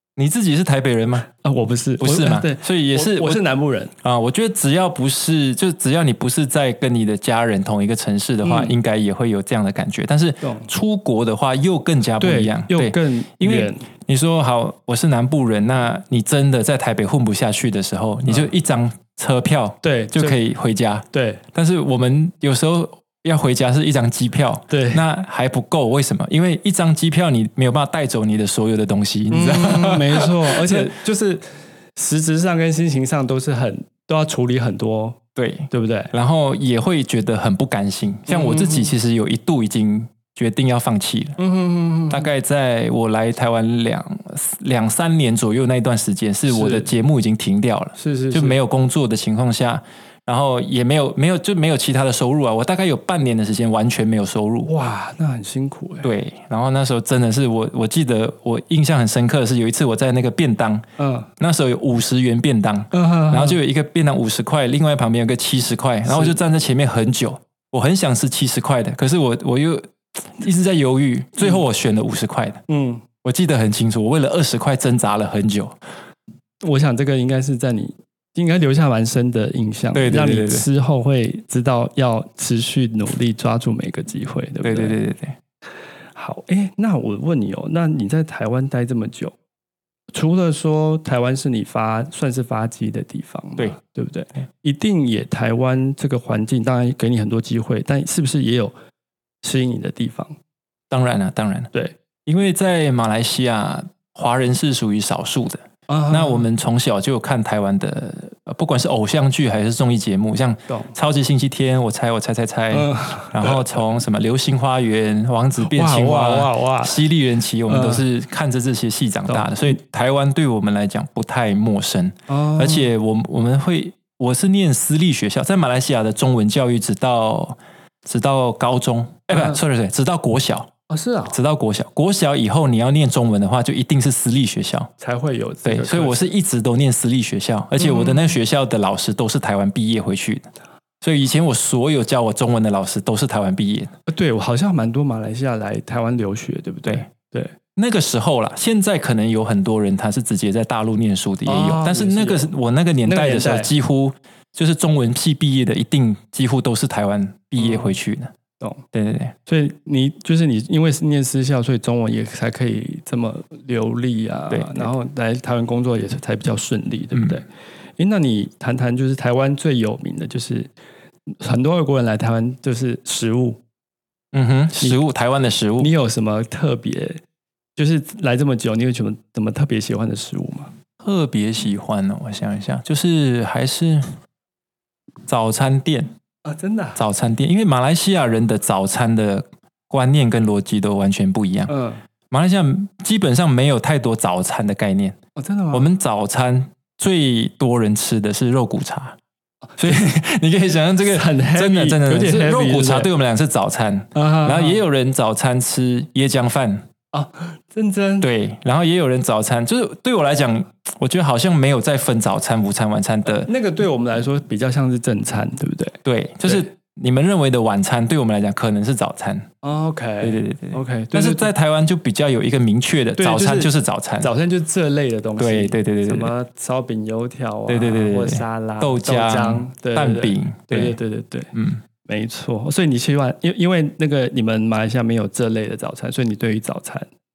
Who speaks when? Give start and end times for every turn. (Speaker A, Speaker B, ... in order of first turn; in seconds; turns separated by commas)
Speaker A: 0.1-1.3, Speaker B: 1.4-3.9, Speaker A: 2.0-3.4, Speaker A: 4.0-30.9, Speaker B: 8.4-8.7, Speaker B: 10.4-10.7, Speaker B: 12.2-13.8, Speaker B: 19.8-20.4, Speaker B: 21.1-21.4, Speaker B: 24.7-25.0, Speaker B: 29.3-35.2, Speaker A: 35.3-41.4, Speaker B: 35.7-36.1, Speaker B: 38.3-38.9, Speaker B: 41.4-42.3, Speaker A: 42.1-54.7, Speaker B: 46.5-46.9, Speaker B: 48.0-48.6, Speaker B: 54.6-56.1, Speaker A: 56.0-60.9, Speaker B: 61.0-61.3, Speaker A: 61.4-72.6, Speaker B: 62.9-63.6, Speaker B: 66.0-66.4, Speaker B: 71.4-71.6, Speaker B: 72.7-73.0, Speaker A: 73.2-75.7, Speaker B: 76.6-85.0, Speaker A: 79.9-80.6, Speaker A: 84.6-85.3, Speaker B: 86.1-89.3, Speaker B: 90.1-98.7, Speaker B: 99.4-100.3, Speaker A: 100.9-101.7, Speaker A: 102.2-130.7, Speaker B: 105.9-106.4, Speaker B: 110.7-110.9, Speaker B: 112.7-113.6, Speaker B: 115.6-117.0, Speaker B: 117.7-118.0, Speaker B: 119.3-119.8, Speaker B: 122.3-122.9, Speaker B: 129.3-129.6, Speaker B: 130.9-131.4, Speaker A: 131.3-134.9, Speaker B: 135.0-136.3, Speaker A: 135.6-140.5, Speaker B: 137.8-138.3, Speaker A: 141.0-143.9, Speaker B: 144.1-147.5, Speaker A: 147.8-158.3, Speaker B: 151.4-152.5, Speaker B: 153.0-153.7, Speaker B: 157.6-157.9, Speaker A: 158.9-159.3, Speaker B: 159.4-167.4, Speaker A: 164.5-164.9, Speaker A: 167.1-167.4, Speaker B: 168.0-170.7, Speaker B: 171.3-173.6, Speaker A: 174.3-175.9, Speaker B: 175.8-177.2, Speaker B: 177.8-180.7, Speaker A: 181.0-184.2, Speaker A: 185.2-186.1, Speaker B: 186.4-187.0, Speaker A: 186.9-191.7, Speaker B: 191.7-192.0, Speaker A: 192.3-195.2, Speaker B: 195.3-195.8, Speaker A: 195.7-199.2, Speaker B: 199.7-200.1, Speaker A: 199.8-206.8, Speaker B: 201.0-203.1, Speaker B: 204.1-204.8, Speaker B: 207.1-208.3, Speaker A: 208.2-213.5, Speaker B: 213.2-216.0, Speaker A: 216.0-219.5, Speaker B: 219.6-221.5, Speaker A: 220.2-224.3, Speaker B: 223.2-231.5, Speaker A: 225.4-226.3, Speaker A: 227.7-231.0, Speaker A: 231.5-231.8, Speaker B: 232.1-237.1